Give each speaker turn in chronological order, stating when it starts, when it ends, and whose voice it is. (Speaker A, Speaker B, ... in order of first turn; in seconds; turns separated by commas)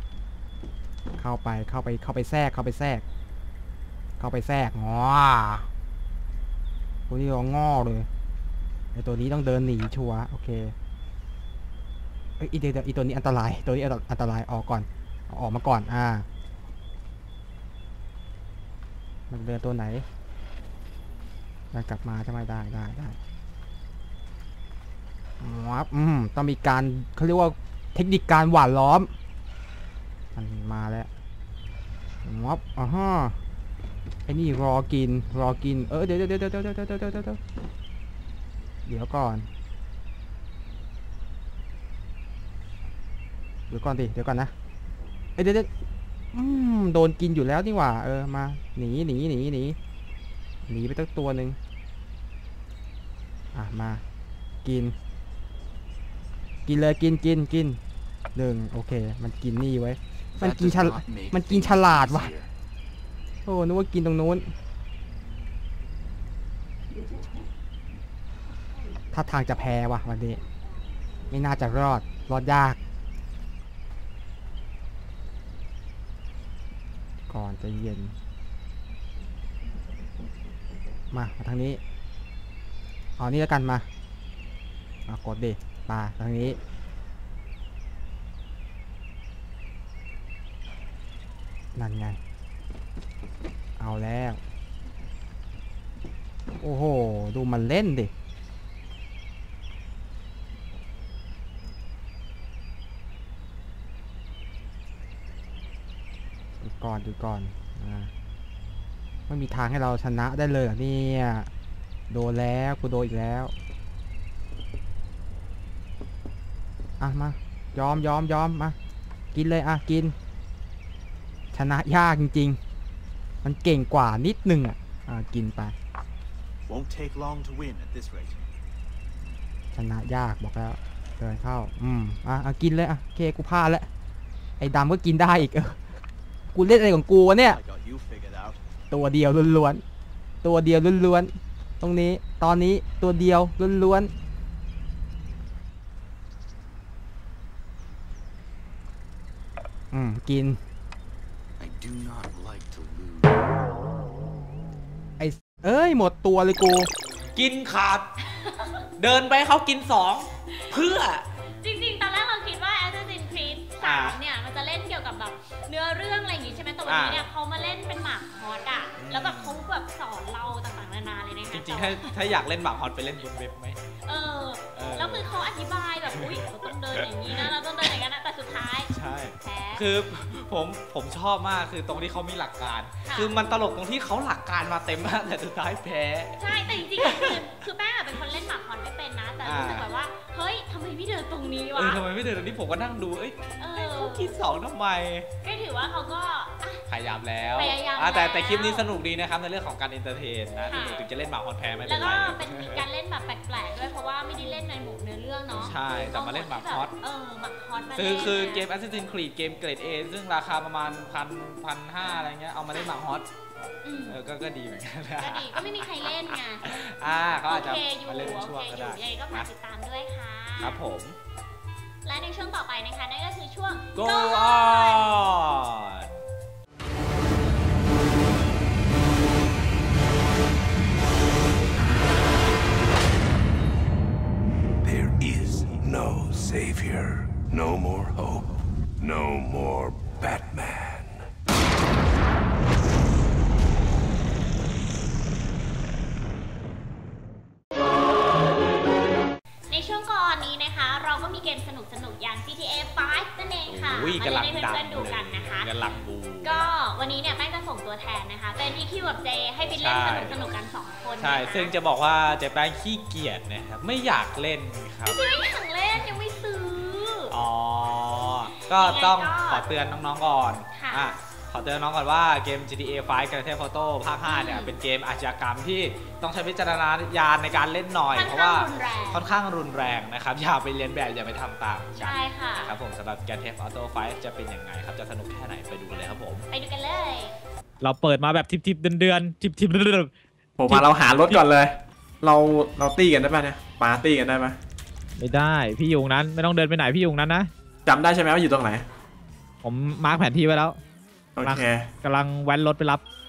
Speaker A: 1.2-3.0, Speaker A: 4.2-5.7, Speaker A: 7.1-8.1, Speaker A: 8.9-10.7, Speaker A: 12.4-16.3, Speaker A: 19.3-20.1, Speaker A: 21.7-23.2, Speaker A: 25.4-29.1, Speaker A: 30.4-31.1, Speaker A: 32.2-33.4, Speaker A: 34.3-37.4, Speaker A: 38.9-39.5, Speaker A: 43.7-44.5, Speaker A: 45.4-45.7, Speaker A: 46.3-49.8, Speaker A: 50.7-51.6, Speaker A: 53.5-54.0, Speaker A: 54.6-55.0, Speaker A: 56.7-57.8, Speaker A: 58.4-62.3, Speaker B: 60.4-62.5, Speaker A: 63.5-64.5, Speaker A: 69.1-70.4, Speaker A: 71.3-72.8, Speaker A: 77.3-78.2, Speaker A: 81.1-81.8, Speaker A: 83.2-83.9, Speaker A: 85.1-86.6, Speaker A: 91.8-92.2, Speaker A: 93.8-94.4, Speaker A: 96.6-98.1, Speaker A: 106.6-108.1, Speaker A: 109.3-111.5, Speaker A: 112.1-113.5, Speaker A: 117.0-118.8, Speaker A: 119.3-120.2, Speaker A: 121.5-122.6, Speaker A: 123.4-125.7, Speaker B: 126.7-128.4, Speaker A: 129.7-133.9, Speaker A: 134.6-135.8, Speaker A: 136.5-137.6, Speaker B: 137.5-138.6, Speaker A: 138.9-139.8, Speaker A: 140.4-144.1, Speaker A: 149.9-150.6, Speaker B: 151.6-153.4, Speaker A: 155.2-156.9, Speaker C: 157.4-158.1, Speaker D: 158.4-158.8, Speaker C: 159.0-161.2, Speaker D: 161.6-172.2, Speaker C: 163.8-164.2, Speaker C: 166.9-167.2, Speaker C: 169.0-169.7, Speaker C: 171.5-173.8, Speaker D: 174.1-179.9, Speaker C: 174.8-175.3, Speaker C: 176.1-177.5, Speaker C: 178.9-187.4, Speaker D: 183.0-183.4, Speaker D: 186.4-192.0, Speaker C: 189.4-189.9, Speaker C: 191.8-195.3, Speaker D: 193.6-194.4, Speaker D: 195.4-196.8, Speaker C: 196.9-202.8, Speaker D: 197.6-198.9, Speaker D: 200.7-201.1, Speaker D: 201.8-208.7, Speaker C: 205.6-206.9, Speaker C: 207.9-213.3, Speaker D: 213.8-214.2, Speaker C: 214.1-219.5, Speaker D: 215.2-220.8, Speaker C: 220.6-221.2, Speaker D: 222.0-225.3, Speaker C: 223.9-226.1, Speaker E: 234.8-241.3, Speaker D: 249.7-261.8, Speaker C: 253.7-256.7, Speaker C: 259.7-260.5, Speaker C: 261.2-265.3, Speaker D: 265.1-267.4, Speaker C: 267.3-286.5, Speaker D: 268.5-269.7, Speaker D: 270.7-271.1, Speaker D: 274.2-274.8, Speaker D: 278.1-279.3, Speaker D: 282.0-282.8, Speaker D: 286.5-287.4, Speaker F: 287.8-290.1, Speaker G: 290.6-294.6, Speaker F: 290.7-291.4, Speaker F: 295.2-297.5, Speaker G: 297.9-298.9, Speaker F: 299.6-300.8, Speaker G: 301.4-301.9, Speaker F: 301.4-303.0